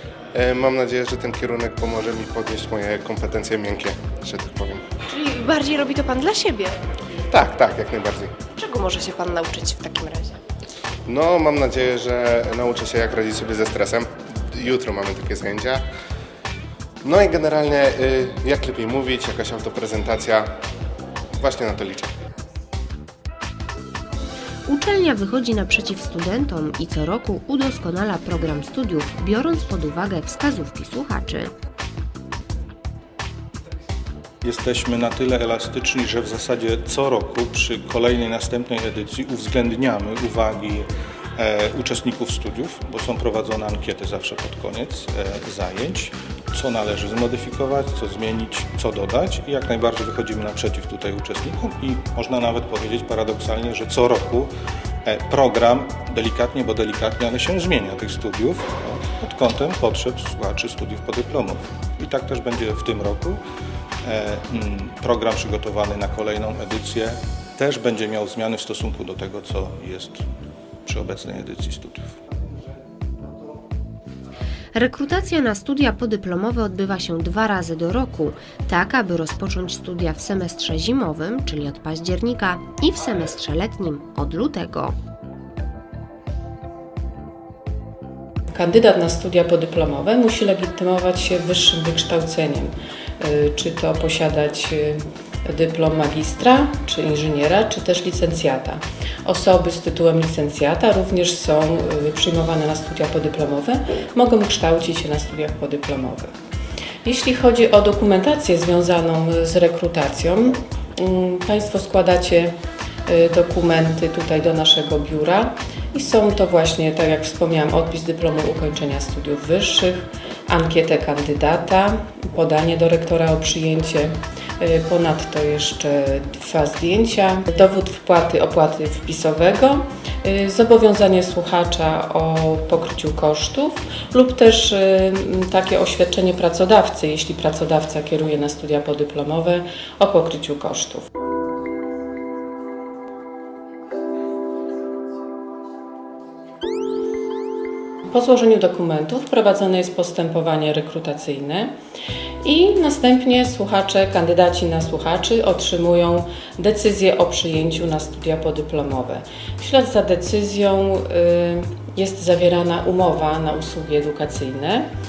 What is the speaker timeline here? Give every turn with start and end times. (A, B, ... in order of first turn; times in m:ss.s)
0:00.3-0:04.8 A
0:05.1-0:06.8 B
0:07.3-0:08.3 A
0:08.6-0:10.4 B
0:11.1-0:15.8 A
0:17.0-0:20.5 A
0:21.4-0:22.1 A
0:24.7-0:31.5 C
0:34.4-0:54.5 D
0:55.0-1:03.4 D
1:04.0-1:10.2 D
1:10.9-1:12.1 D
1:14.8-1:25.0 C
1:28.5-1:46.3 E
1:47.0-1:52.5 E
1:53.1-2:21.0 E
2:28.1-2:31.8 E
2:32.4-2:44.9 E